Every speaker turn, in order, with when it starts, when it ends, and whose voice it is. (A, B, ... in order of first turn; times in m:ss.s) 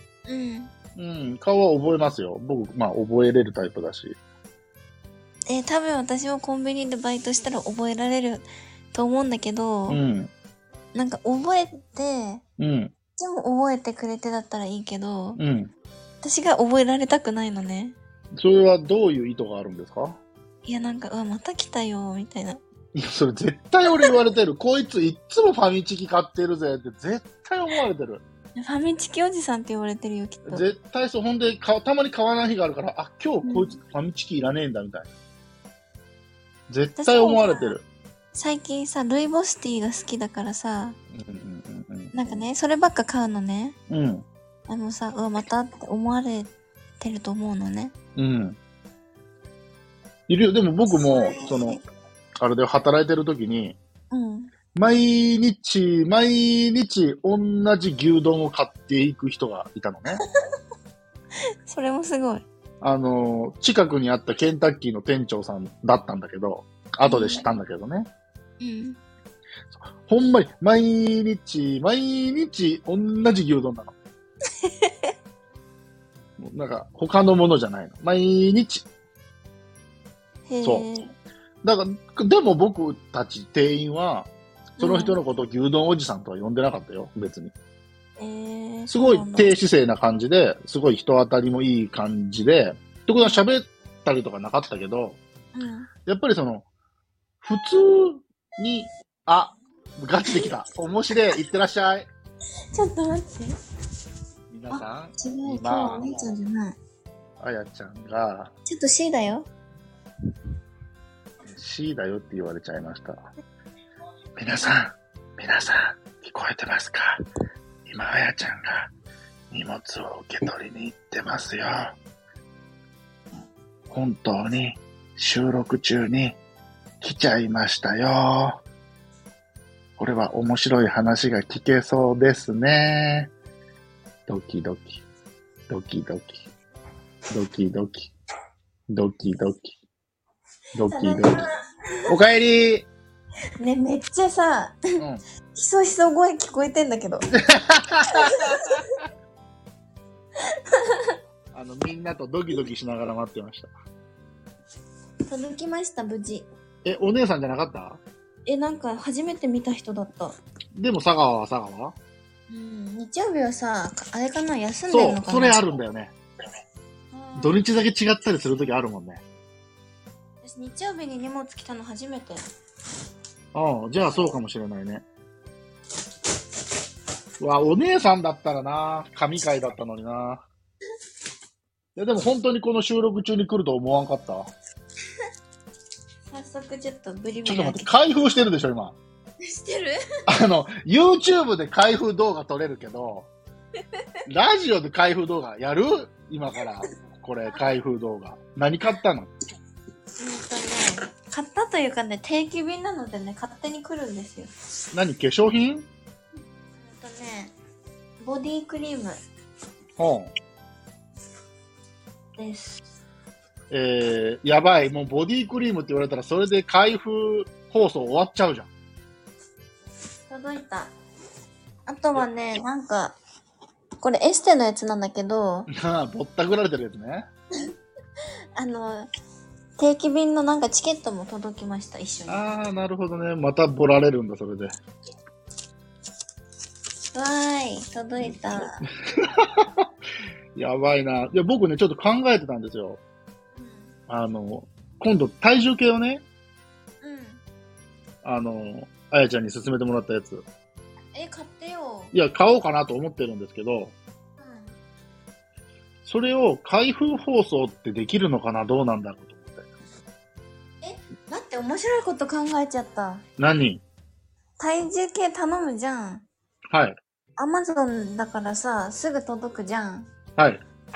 0:00.2-0:00.7 A
0:01.0-0:04.2 B
0:05.5-0:10.0 A
0:09.9-0:10.3 B
0:10.9-0:12.4 A
0:12.6-0:12.9 B
0:13.2-0:15.4 A
0:15.4-0:15.7 B
0:16.2-0:18.0 A
0:18.4-0:20.2 B
0:20.6-0:22.6 A
0:23.0-0:28.2 B
0:28.5-0:30.7 A
0:30.5-0:35.1 B
0:33.4-0:33.8 A
0:36.7-0:37.8 B
0:37.0-0:37.8 A
0:38.3-0:41.0 A
0:41.1-0:42.1 B
0:42.1-0:43.8 A
0:43.9-0:44.2 B
0:44.7-0:47.9 A
0:48.2-0:48.6 B
0:50.3-0:51.8 B
0:50.9-0:51.8 A
0:52.4-0:53.8 B
0:54.1-0:54.5 A
0:54.7-1:00.2 B
1:01.7-1:02.4 A
1:02.8-1:08.1 B
1:07.0-1:07.4 A
1:08.6-1:09.0 A
1:09.7-1:13.9 B
1:14.6-1:14.9 A
1:16.4-1:18.9 B
1:20.5-1:21.1 A
1:20.6-1:20.9 B
1:21.6-1:27.5 B
1:24.8-1:25.2 A
1:28.2-1:29.6 A
1:28.9-1:35.2 B
1:35.5-1:35.9 A
1:36.0-1:36.6 B
1:37.4-1:42.1 B
1:42.7-1:43.5 A
1:44.5-1:46.1 B
1:44.7-1:46.8 A
1:47.4-1:48.5 B
1:48.6-1:49.5 A
1:51.4-1:53.3 B
1:54.4-1:57.2 B
1:57.8-1:58.9 B
1:59.5-2:02.0 B
2:03.9-2:06.4 B
2:07.0-2:08.6 B
2:10.0-2:13.3 B
2:14.3-2:15.0 B
2:15.7-2:16.5 B
2:17.3-2:18.1 B
2:18.9-2:19.8 B
2:20.8-2:21.4 B
2:20.8-2:21.5 A
2:22.1-2:22.9 B
2:23.6-2:24.8 A
2:25.5-2:27.2 A
2:27.3-2:28.8 B
2:28.1-2:28.8 A
2:31.5-2:33.7 B
2:35.3-2:36.5 A
2:36.8-2:38.0 B
2:38.4-2:40.4 A
2:40.8-2:42.0 B
2:42.5-2:45.6 A
2:44.9-2:46.1 B
2:47.1-2:47.6 A
2:47.4-2:49.2 B
2:50.4-2:52.4 A
2:53.5-2:55.0 B
2:57.4-3:00.4 B
3:02.0-3:04.5 B
3:06.2-3:07.9 A
3:07.4-3:09.0 B
3:09.4-3:10.0 A
3:10.3-3:13.3 B
3:14.3-3:19.3 B
3:20.2-3:24.5 A
3:24.9-3:25.9 B
3:26.8-3:27.5 A
3:28.2-3:29.2 A
3:30.0-3:30.3 B
3:32.4-3:32.8 A
3:33.7-3:38.7 B
3:40.3-3:40.9 A
3:41.9-3:43.2 A
3:44.0-3:45.7 A
3:45.7-3:47.3 B
3:48.6-3:49.1 A
3:49.8-3:52.5 A
3:52.3-3:54.8 B
3:57.1-3:58.8 A
4:00.5-4:03.0 B
4:03.6-4:03.9 A
4:04.1-4:06.2 B
4:07.0-4:07.4 A
4:08.2-4:10.4 B
4:11.1-4:12.1 A
4:12.1-4:14.0 B
4:14.4-4:14.8 A
4:16.0-4:19.6 B
4:20.8-4:23.2 A
4:23.4-4:23.8 B
4:24.6-4:26.2 A
4:26.7-4:27.0 B
4:27.4-4:30.1 A
4:30.4-4:30.6 B